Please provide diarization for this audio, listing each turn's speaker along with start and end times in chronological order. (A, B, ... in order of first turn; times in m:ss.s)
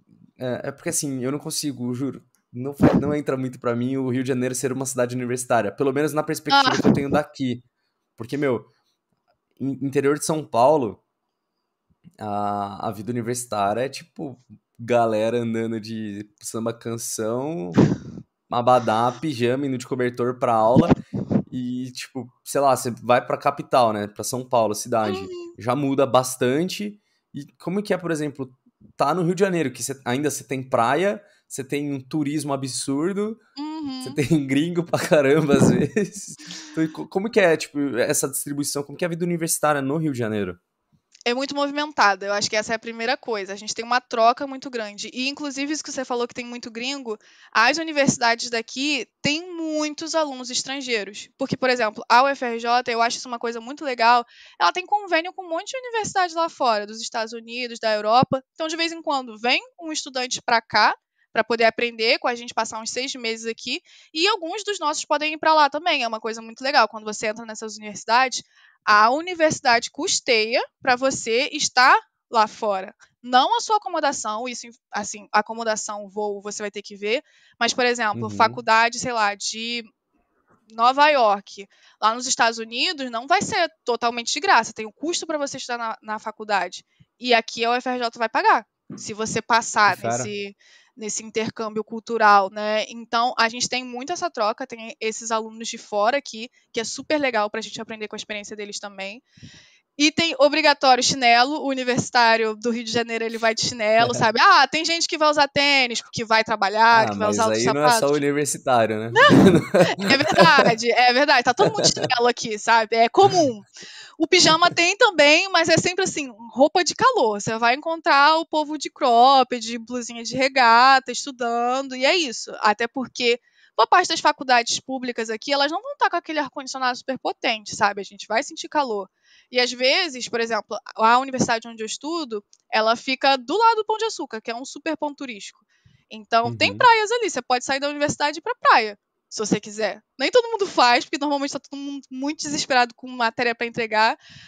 0:00.4-0:07.6 A
0:06.5-0:07.0 B
0:08.2-0:08.7 A
0:09.6-0:11.0 A
0:12.2-0:17.8 A
0:18.5-0:21.0 A
0:21.5-0:33.4 A
0:25.0-0:25.6 B
0:33.6-0:34.2 B
0:34.0-0:40.6 A
0:41.2-1:19.9 B
1:18.1-1:18.6 A
1:20.7-1:39.2 B
1:29.8-1:30.3 A
1:40.0-1:48.2 B
1:44.0-1:44.2 A
1:46.9-1:50.4 A
1:49.9-2:24.2 B
2:16.4-2:16.9 A